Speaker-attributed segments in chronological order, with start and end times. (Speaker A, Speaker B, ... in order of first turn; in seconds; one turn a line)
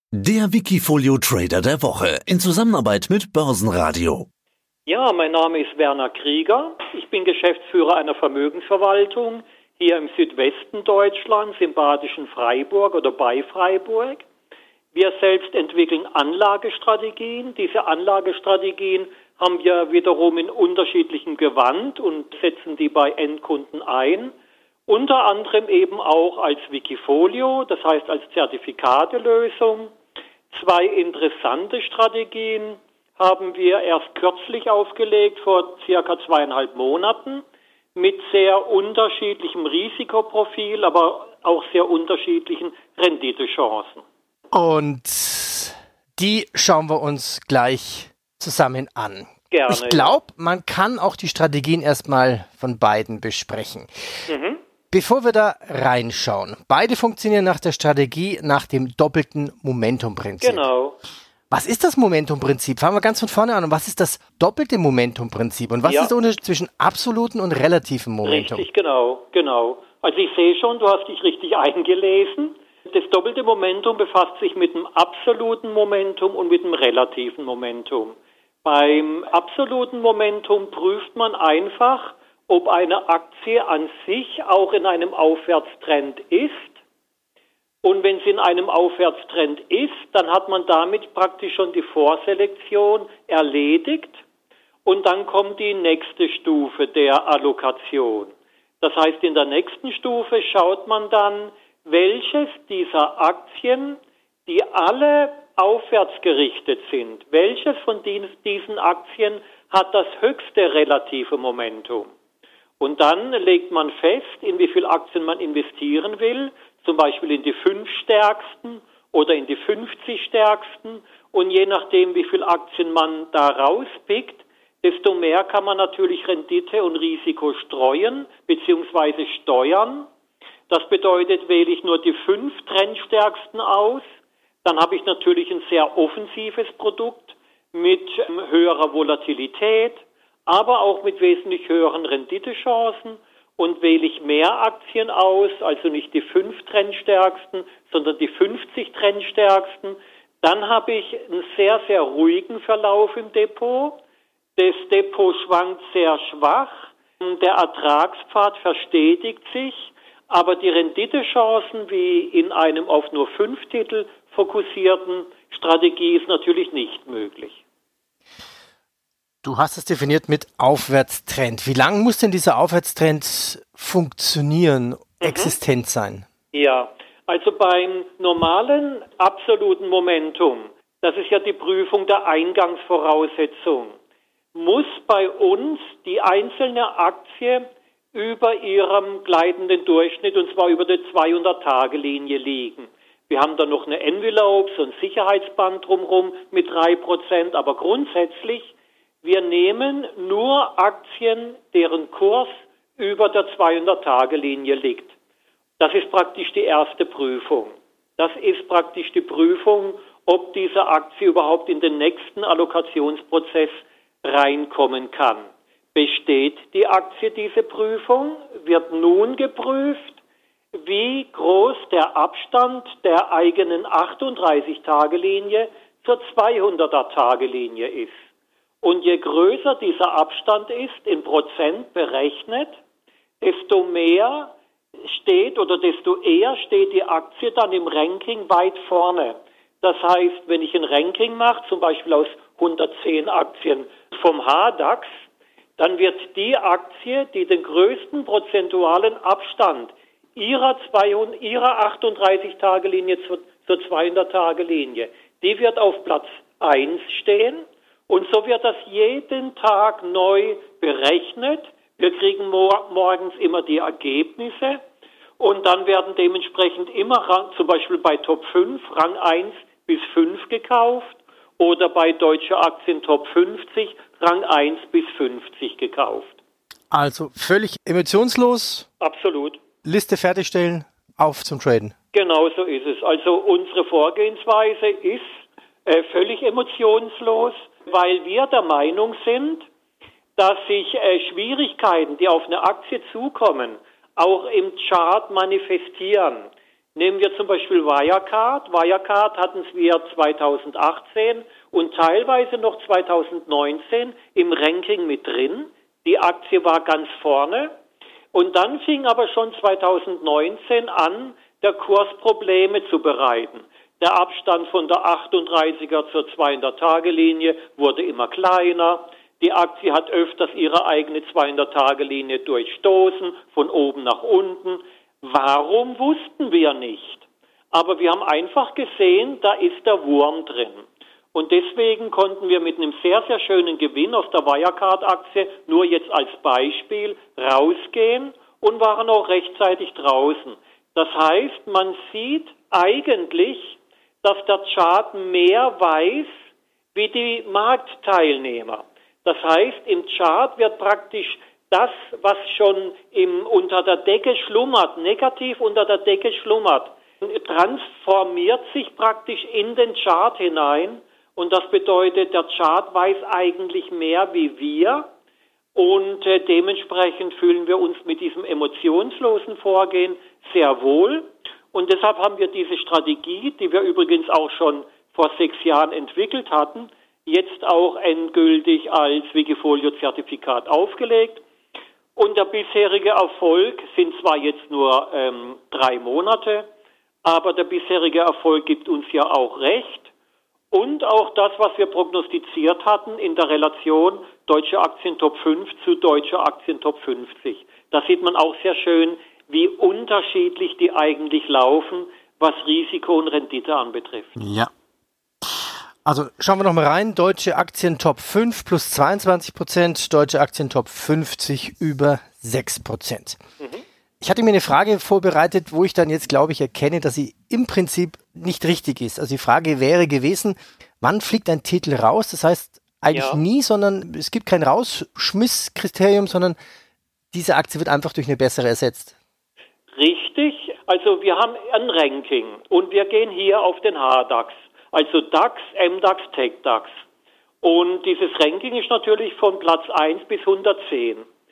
Speaker A: 0.2-4.3
Speaker B: 4.8-14.2
Speaker B: 14.9-24.3
Speaker B: 24.9-29.9
Speaker B: 30.5-37.4
Speaker B: 37.9-44.0
Speaker C: 44.5-53.9
Speaker B: 49.5-50.2
Speaker B: 54.3-54.6
Speaker C: 54.9-60.6
Speaker B: 60.4-61.0
Speaker C: 61.5-68.7
Speaker B: 65.8-66.1
Speaker B: 68.2-86.8
Speaker B: 87.8-94.2
Speaker B: 94.8-112.1
Speaker B: 112.8-130.1
Speaker B: 130.7-134.0
Speaker B: 134.6-154.0
Speaker B: 154.6-167.6
Speaker C: 169.4-176.2
Speaker B: 175.2-175.6
Speaker B: 176.5-183.9
Speaker B: 184.5-205.1
Speaker B: 205.8-220.2
Speaker B: 220.7-228.1
Speaker B: 228.8-232.8
Speaker B: 233.4-245.1
Speaker B: 245.8-264.8
Speaker B: 265.4-276.4
Speaker C: 276.9-278.9
Speaker B: 279.0-279.6
Speaker C: 279.8-281.9
Speaker B: 282.1-289.6
Speaker B: 290.4-307.7
Speaker B: 308.3-346.3
Speaker B: 346.9-365.1
Speaker B: 365.7-381.4
Speaker B: 382.1-386.7
Speaker B: 387.2-390.1
Speaker B: 390.7-404.4
Speaker C: 404.4-404.7
Speaker C: 406.0-413.4
Speaker B: 413.6-413.8
Speaker C: 414.2-426.6
Speaker B: 423.1-423.4
Speaker C: 427.3-429.1
Speaker B: 429.9-436.9
Speaker B: 437.6-441.2